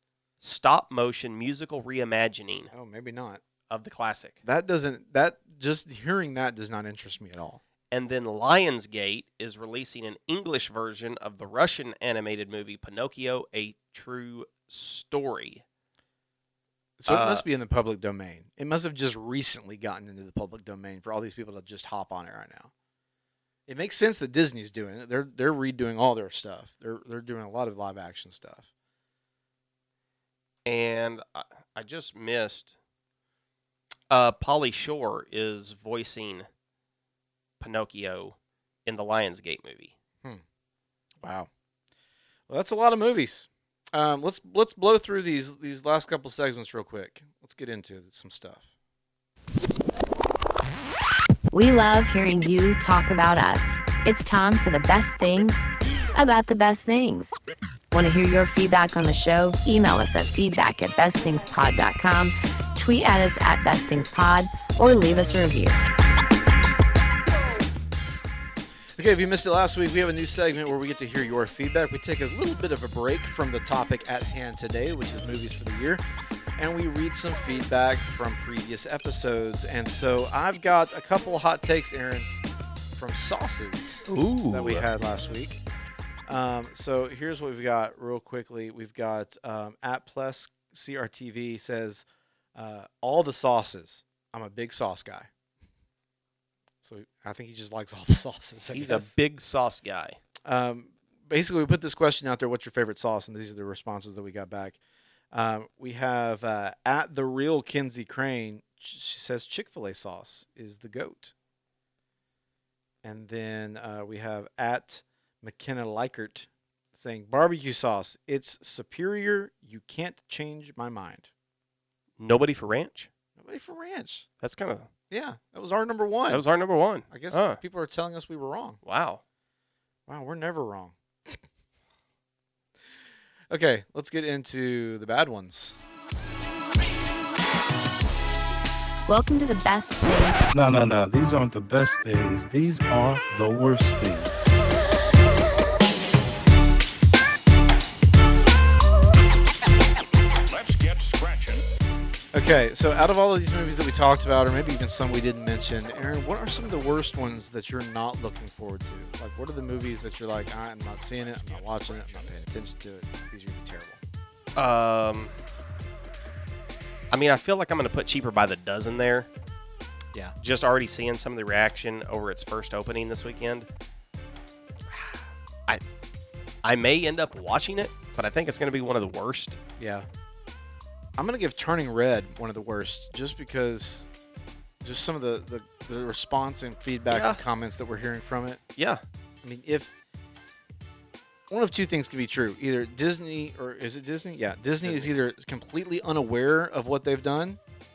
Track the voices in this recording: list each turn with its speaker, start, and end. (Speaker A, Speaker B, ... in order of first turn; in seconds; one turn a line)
Speaker A: 0.4-2.7
Speaker B: 2.7-3.4
Speaker A: 3.7-4.4
Speaker B: 4.4-7.6
Speaker A: 7.9-15.6
Speaker B: 17.0-22.7
Speaker A: 17.1-17.4
Speaker B: 23.7-28.7
Speaker A: 30.6-32.7
Speaker A: 34.1-36.5
Speaker A: 37.6-39.9
Speaker B: 41.2-41.5
Speaker B: 42.5-48.6
Speaker C: 51.5-57.4
Speaker C: 57.9-65.8
Speaker B: 69.0-76.0
Speaker B: 76.6-82.3
Speaker B: 83.0-85.6
Speaker A: 84.1-84.9
Speaker B: 86.3-95.3
Speaker B: 96.8-99.1
Speaker A: 98.7-100.2
Speaker B: 100.5-104.8
Speaker B: 105.3-111.3
Speaker B: 113.0-121.3
Speaker A: 122.2-123.1
Speaker B: 123.4-124.3
Speaker A: 124.4-124.9
Speaker B: 125.1-126.4
Speaker A: 126.3-127.6
Speaker B: 127.1-128.8
Speaker A: 128.8-129.2
Speaker B: 130.1-131.4
Speaker B: 133.5-135.8
Speaker C: 139.1-140.5
Speaker D: 140.5-144.6
Speaker B: 152.3-164.0
Speaker A: 164.6-165.3
Speaker A: 167.1-169.3
Speaker A: 170.4-173.7
Speaker A: 176.6-179.6
Speaker B: 179.8-180.1
Speaker B: 181.2-184.1
Speaker B: 184.8-188.6
Speaker A: 187.1-187.4
Speaker A: 188.8-189.0
Speaker B: 189.4-189.9
Speaker B: 191.5-197.6
Speaker A: 194.8-195.1